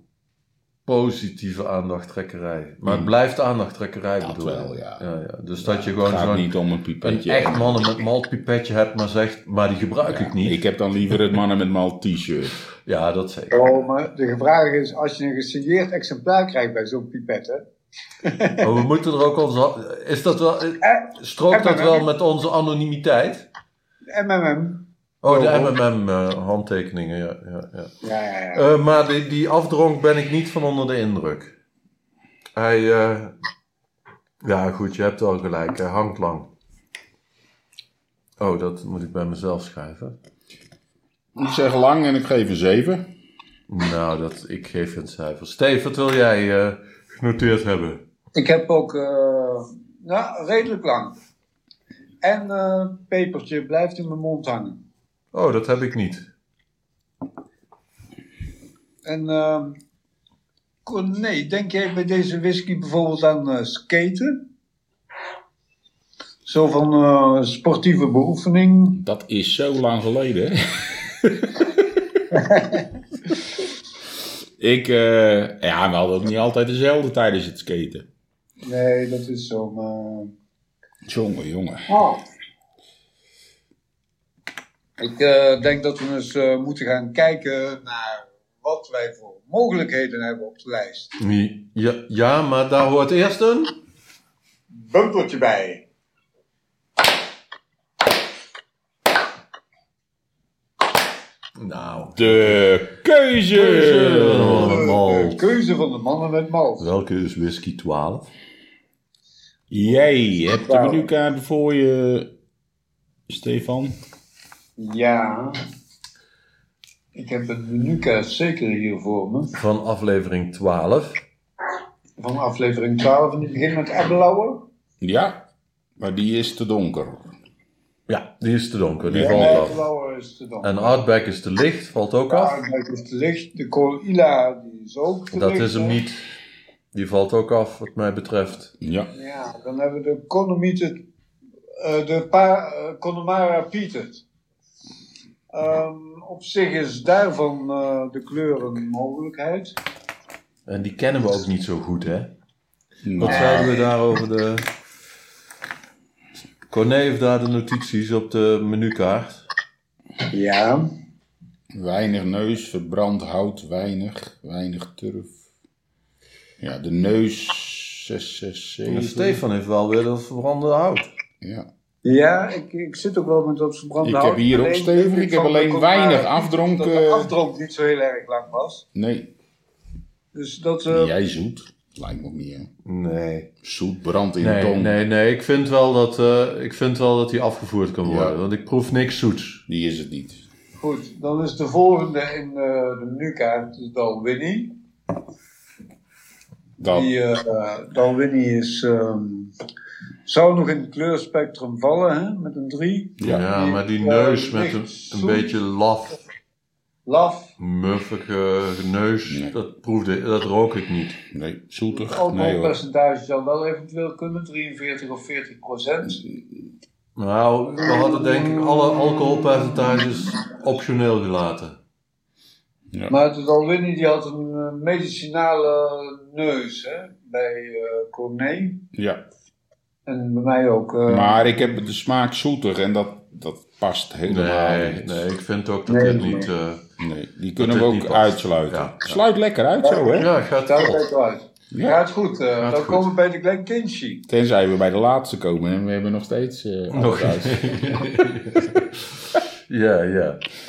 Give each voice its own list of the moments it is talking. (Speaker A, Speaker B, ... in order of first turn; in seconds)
Speaker A: 0.9-6.5, 7.0-10.6, 12.8-13.7, 18.6-23.5, 25.2-27.9, 28.5-31.6, 32.6-33.4, 34.4-36.5, 38.4-40.2, 43.7-48.0, 55.3-56.3, 91.2-93.8, 101.6-102.7, 103.5-105.4, 106.8-108.3, 119.5-121.2, 128.1-129.8, 130.6-132.6, 135.3-136.2, 136.9-138.7, 150.7-152.3, 153.2-154.7, 156.7-159.5, 168.8-171.1, 182.8-183.5, 184.4-189.6, 203.2-206.2, 207.6-211.2, 217.2-221.8, 234.3-236.8, 237.6-239.2, 240.1-241.1, 242.6-243.1, 246.9-249.1, 249.7-250.4
Speaker B: 2.9-3.1, 4.2-5.0, 5.6-8.0, 10.1-12.6, 41.4-43.0, 69.0-71.7, 74.6-78.1, 81.1-81.9, 102.1-104.8, 109.7-112.3, 113.3-114.0, 125.0-125.4, 126.0-127.3, 129.1-129.8, 138.8-139.1, 153.0-153.7, 161.7-165.4, 166.6-169.4, 171.4-171.7, 174.0-177.3, 178.9-179.3, 180.9-182.7, 183.6-184.9, 188.1-188.4, 189.7-190.4, 196.8-197.1, 203.2-203.4, 209.3-209.5, 211.3-212.8, 228.9-229.2, 231.1-235.2, 237.0-240.3, 241.7-242.0, 244.3-247.9
Speaker C: 13.5-17.7, 18.2-18.8, 20.8-22.1, 24.1-25.8, 28.0-28.7, 48.3-51.2, 52.2-54.8, 59.0-59.8, 60.9-64.4, 66.5-69.0, 72.3-72.9, 78.6-80.3, 81.9-82.2, 85.0-91.2, 94.7-95.8, 104.4-106.9, 110.5-111.1, 114.8-115.6, 117.1-119.5, 122.2-124.7, 129.2-131.0, 132.3-136.0, 139.1-141.0, 141.8-144.2, 145.5-149.8, 153.3-153.8, 160.3-160.9, 172.0-178.8, 180.3-181.1, 190.8-194.8, 196.8-199.5, 200.3-205.6, 207.1-207.5, 211.9-216.2, 217.8-220.1, 223.1-228.8, 230.1-231.4, 235.9-236.5, 239.8-244.2